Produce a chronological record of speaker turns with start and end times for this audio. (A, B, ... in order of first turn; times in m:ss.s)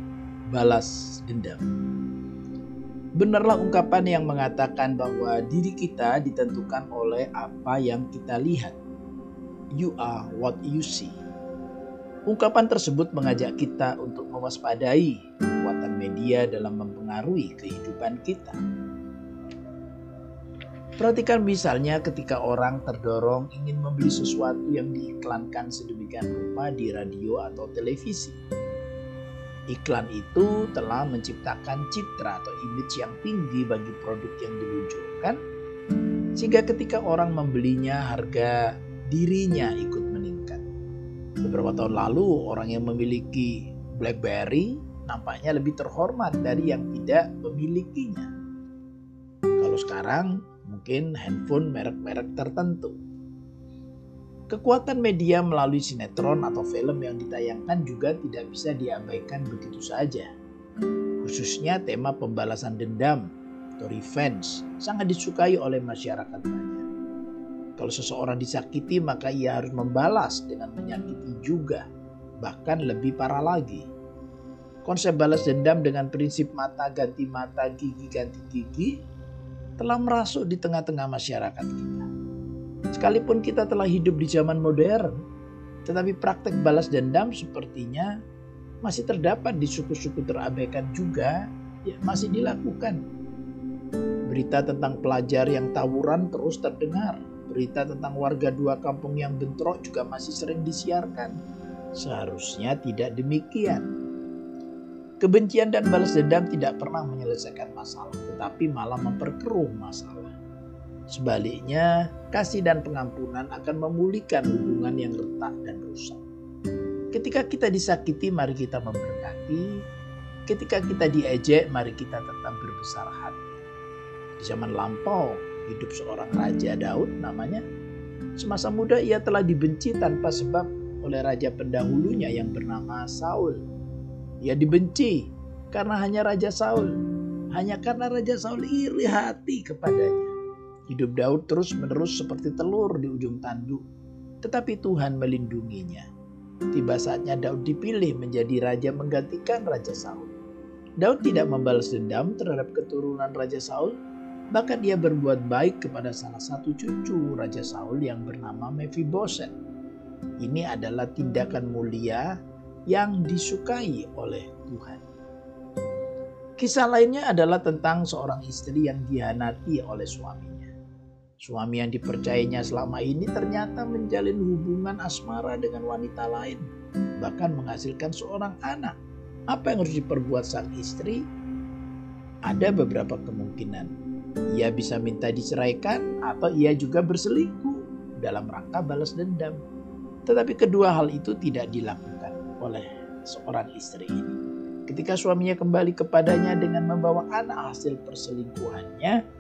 0:00.5-0:01.6 A
0:03.2-0:08.8 A
0:09.8-0:11.2 A
0:12.3-0:18.6 A
0:21.0-0:28.4 A
0:29.7-0:35.4 A
0:36.4-0:38.6 A
0:39.1-0:40.6 A
0:41.4-0:48.3 A
0:49.6-0:53.0 A
0:54.5-1:00.3 A
1:01.2-1:03.2 A
1:03.8-1:06.8 A
1:07.8-1:11.8 A
1:12.4-1:13.9 A
1:14.8-1:18.9 A
1:19.8-1:22.1 A
1:22.9-1:25.1 A
1:25.8-1:28.1 A
1:28.8-1:33.0 A
1:34.3-1:41.3 A
1:42.0-1:43.9 A
1:45.2-1:50.3 A
1:51.1-1:56.2 A
1:57.1-1:59.6 A
2:00.5-2:03.6 A
2:04.4-2:07.6 A
2:08.4-2:13.6 A
2:14.4-2:17.0 A
2:17.5-2:20.3 A
2:20.9-2:23.8 A
2:24.4-2:26.0 A
2:26.7-2:30.3 A
2:31.0-2:33.9 A
2:34.5-2:39.5 A
2:40.4-2:42.3 A
2:42.9-2:45.0 A
2:46.6-2:50.7 A
2:51.4-2:56.7 A
2:57.2-2:58.9 A
2:59.5-3:01.2 A
3:02.5-3:03.9 A
3:04.5-3:09.6 A
3:10.2-3:14.4 A
3:14.9-3:19.2 A